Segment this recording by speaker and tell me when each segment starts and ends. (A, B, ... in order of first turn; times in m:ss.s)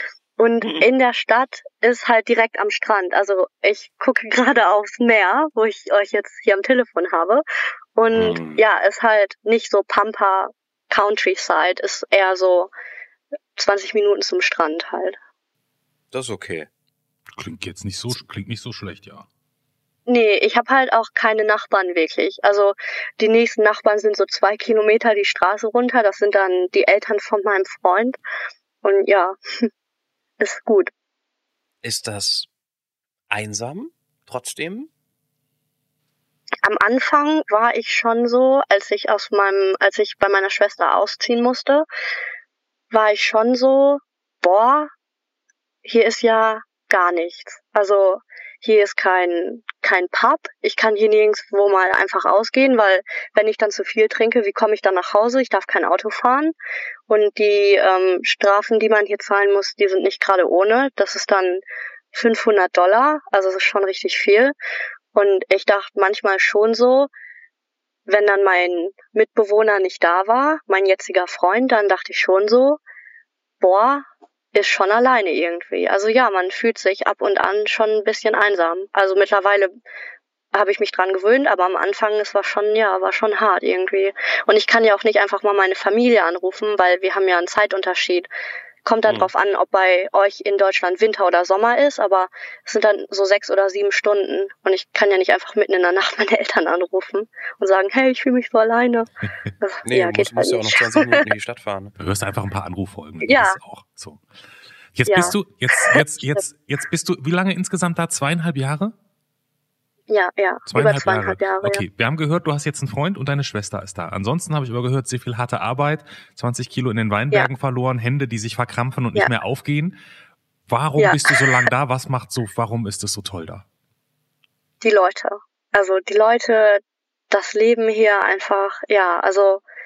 0:00.4-0:07.4 A
0:08.0-0:12.7 A
0:08.1-0:08.6 B
0:13.6-0:15.2 A
0:16.1-0:16.7 B
0:17.3-0:19.2 C
0:20.1-0:28.2 A
0:28.8-0:29.7 A
0:30.4-0:30.9 A
0:31.8-0:32.5 B
0:33.3-0:34.9 B
0:36.6-0:41.8 A
0:42.9-0:44.9 A
0:45.8-0:56.5 A
0:57.1-1:01.6 A
1:02.1-1:04.5 A
1:05.1-1:07.1 A
1:08.1-1:12.8 A
1:13.6-1:19.7 A
1:20.5-1:28.3 A
1:28.8-1:41.3 A
1:39.8-1:41.9 B
1:42.0-1:44.2 C
1:43.2-1:43.6 A
1:44.9-1:48.9 C
1:45.1-1:46.4 A
1:50.1-1:51.8 A
1:50.7-2:00.0 C
2:00.7-2:03.6 C
2:01.0-2:01.5 A
2:04.8-2:09.6 A